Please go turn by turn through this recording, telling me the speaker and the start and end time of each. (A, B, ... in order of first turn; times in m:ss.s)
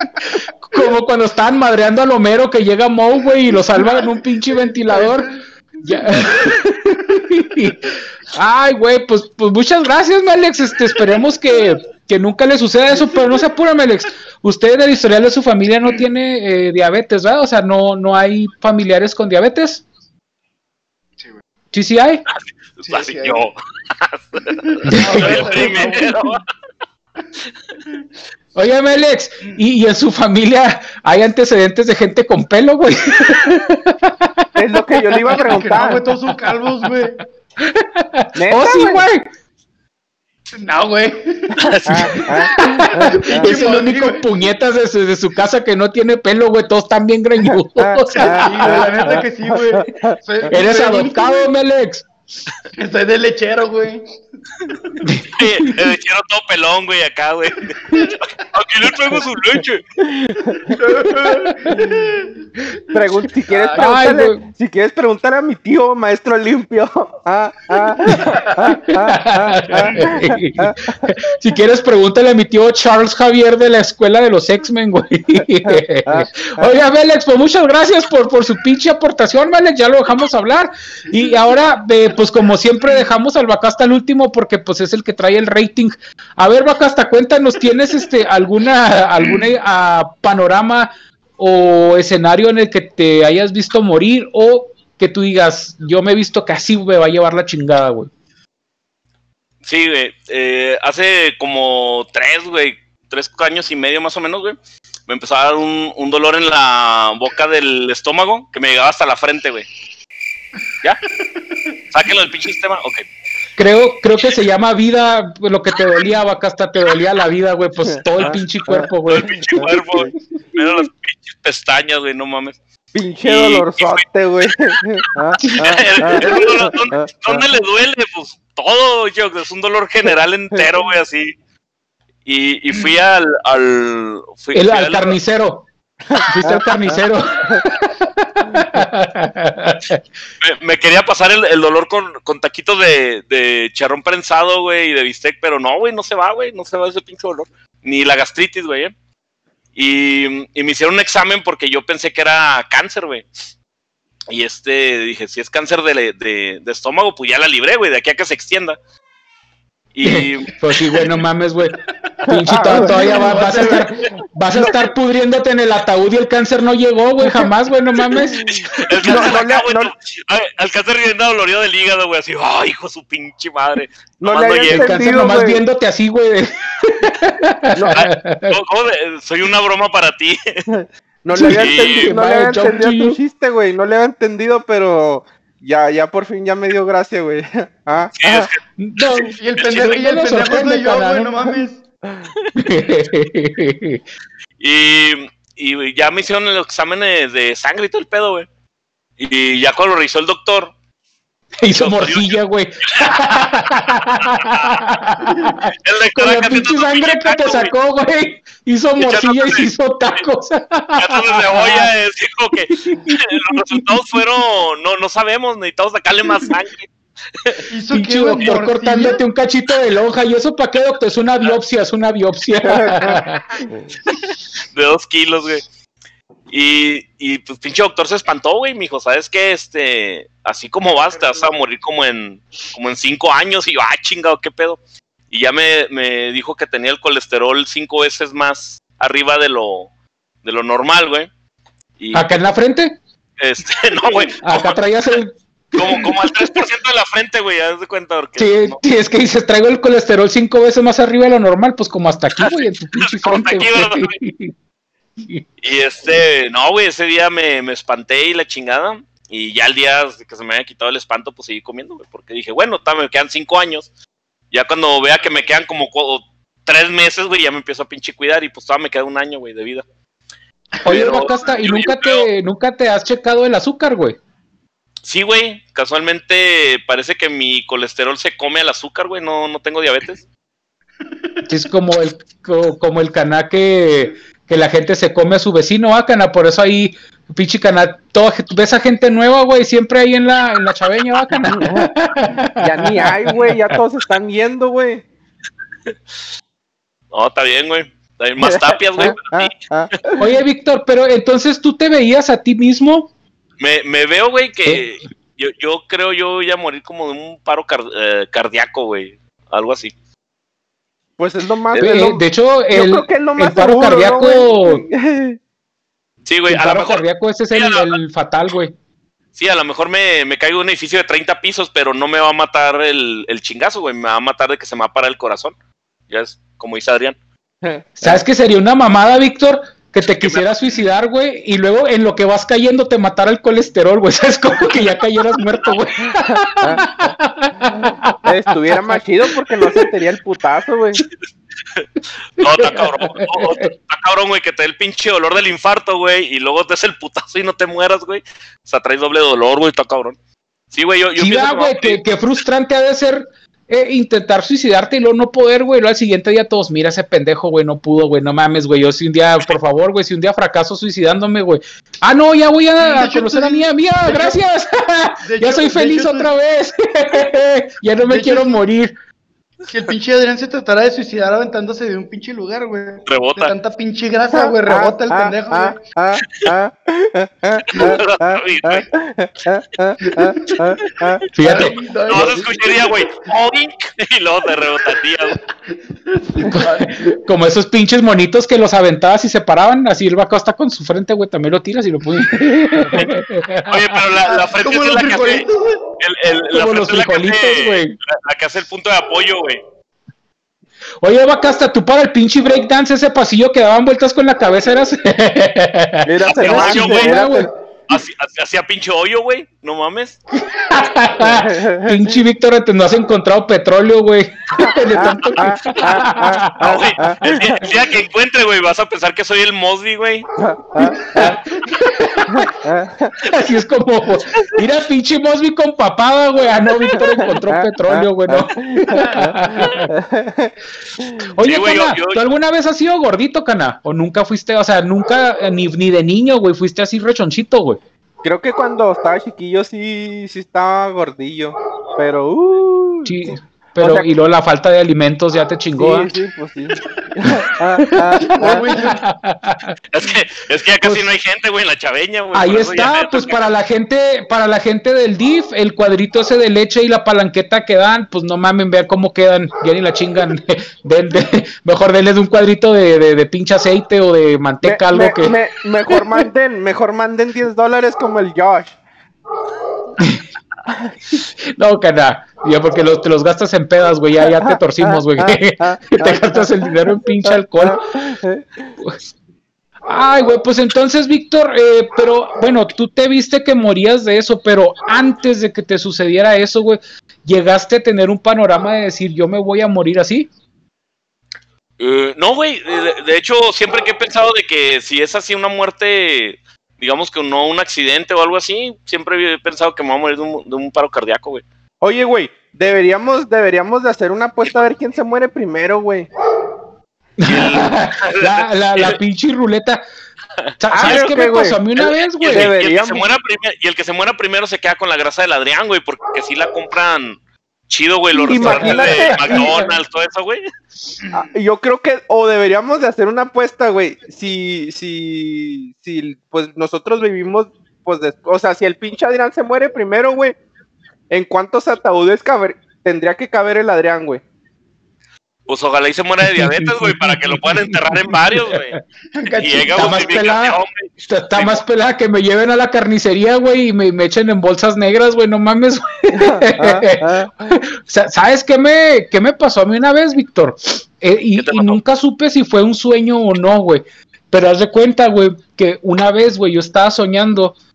0:00.2-0:19.8 A
0:03.7-0:04.1 B
0:04.9-0:05.2 B
0:05.8-0:06.5 B
0:21.7-0:22.2 A
0:22.8-0:26.4 C
0:22.8-0:23.5 B
0:24.6-0:26.4 B
0:24.9-0:25.9 A
0:28.6-0:34.5 A
0:34.6-0:36.0 D
0:35.3-0:37.2 B
0:35.3-0:35.6 A
0:37.6-0:39.3 A
0:38.4-0:39.1 D
0:40.6-0:44.3 B
0:41.6-0:42.3 C
0:41.7-0:43.5 D
0:42.6-0:49.2 A
0:47.4-0:50.5 D
0:48.2-0:51.5 B
0:50.5-0:52.1 A
0:52.8-0:54.0 B
0:54.7-0:55.0 B
0:55.0-0:55.8 A
0:55.3-0:59.8 C
0:57.9-0:58.2 B
1:00.1-1:00.7 D
1:00.5-1:03.9 B
1:01.0-1:01.9 A
1:02.9-1:11.0 D
1:03.8-1:04.4 A
1:07.8-1:08.8 B
1:08.9-1:38.1 A
1:15.6-1:16.7 D
1:39.6-1:44.6 C
1:45.1-1:49.7 C
1:51.9-1:53.1 C
1:53.6-1:59.3 A
1:57.9-2:00.1 D
1:59.1-2:02.6 C
2:02.9-2:07.4 D
2:03.2-2:04.5 C
2:05.2-2:11.3 C
2:05.4-2:06.2 A
2:12.3-2:15.2 C
2:14.5-2:20.0 A
2:16.1-2:17.6 D
2:20.4-2:28.9 C
2:29.8-2:33.3 C
2:34.3-2:38.8 C
2:40.0-2:40.6 C
2:40.0-2:41.8 A
2:42.3-2:49.3 A
2:42.3-2:44.9 D
2:42.7-2:43.9 B
2:48.3-2:49.9 D
2:48.8-2:55.0 C
2:54.2-2:55.6 D
2:54.7-2:58.6 A
2:57.9-3:00.6 C
3:00.7-3:08.5 D
3:01.3-3:03.2 A
3:01.4-3:02.1 C
3:08.2-3:09.9 C
3:08.8-3:11.3 A
3:09.4-3:11.8 B
3:12.6-3:14.0 A
3:14.6-3:18.5 C
3:19.2-3:20.7 C
3:21.6-3:31.9 A
3:21.8-3:23.5 C
3:24.2-3:24.8 C
3:25.8-3:27.7 C
3:29.0-3:29.7 C
3:31.0-3:37.6 C
3:32.8-3:34.2 A
3:37.7-3:39.2 B
3:37.9-3:43.5 A
3:42.6-3:43.2 D
3:44.7-3:45.6 C
3:46.5-3:59.9 C
3:51.1-3:51.5 B
4:00.4-4:01.3 C
4:02.0-4:02.3 C
4:02.1-4:03.0 A
4:03.4-4:04.8 C
4:04.4-4:06.6 A
4:05.8-4:08.8 C
4:08.4-4:14.5 A
4:12.4-4:14.2 C
4:15.6-4:23.9 C
4:24.5-4:29.8 C
4:30.8-4:32.3 C
4:30.8-4:34.2 A
4:30.9-4:31.2 B
4:35.0-4:40.2 C
4:41.5-4:53.4 A
4:51.5-4:51.9 D
4:52.6-4:55.0 D
4:57.1-4:59.5 C
4:58.4-5:00.2 D
5:00.2-5:03.1 A
5:03.6-5:09.9 C
5:11.2-5:15.4 D
5:11.8-5:14.8 A
5:16.3-5:17.0 C
5:16.5-5:18.7 A
5:17.5-5:17.9 C
5:19.4-5:25.5 C
5:26.1-5:27.2 C
5:27.6-5:28.2 D
5:28.0-5:38.9 A
5:36.2-5:36.8 D
5:38.2-5:41.0 D
5:42.4-5:50.2 C
5:42.5-5:43.7 A
5:50.7-5:52.0 C
5:51.2-6:08.9 A
6:02.8-6:04.4 B
6:05.2-6:06.3 B
6:08.0-6:08.6 B
6:09.7-6:15.8 B
6:13.1-6:13.5 C
6:14.3-6:21.2 D
6:17.7-6:18.9 C
6:20.0-6:20.6 B
6:21.3-6:21.8 A
6:21.4-6:22.9 B
6:22.1-6:25.4 C
6:26.1-6:27.1 B
6:26.5-6:34.0 A
6:33.7-6:35.5 C
6:34.2-6:35.8 B
6:36.0-6:39.6 C
6:36.5-6:38.0 A
6:41.0-6:47.5 A
6:46.1-6:47.5 D
6:46.2-6:47.2 C
6:47.9-6:50.2 C
6:50.6-6:57.1 A
6:51.2-6:52.2 D
6:54.6-6:57.7 D
6:56.6-7:00.3 C
7:00.4-7:01.4 D
7:00.8-7:01.8 B
7:01.1-7:02.5 A
7:02.3-7:03.1 D
7:03.2-7:09.9 A
7:06.9-7:11.2 D
7:11.4-7:17.8 A
7:11.4-7:12.2 C
7:18.2-7:24.1 D
7:23.0-7:26.1 A
7:25.8-7:28.6 D
7:27.8-7:29.8 A
7:28.3-7:29.0 B
7:29.9-7:33.4 C
7:30.8-7:31.1 A
7:32.3-7:45.4 A
7:44.6-7:48.8 D
7:50.7-7:50.9 D
7:51.6-7:57.8 A
7:54.2-7:58.7 D
7:59.8-8:10.3 A
8:11.8-8:21.4 C
8:21.8-8:26.1 D
8:27.2-8:29.8 A
8:27.2-8:29.0 C
8:30.6-8:32.6 A
8:30.7-8:31.6 D
8:30.8-8:31.2 C
8:31.8-8:37.2 C
8:32.2-8:33.1 D
8:37.7-8:40.4 C
8:38.2-8:39.6 D
8:38.4-8:39.4 A
8:41.0-8:41.3 B
8:41.1-8:50.4 D
8:51.1-8:54.2 D
8:55.5-8:58.8 C
8:56.2-8:58.8 A
8:59.1-9:00.1 B
8:59.4-9:01.6 C
8:59.7-9:17.6 A
9:06.1-9:07.6 D
9:11.4-9:11.8 C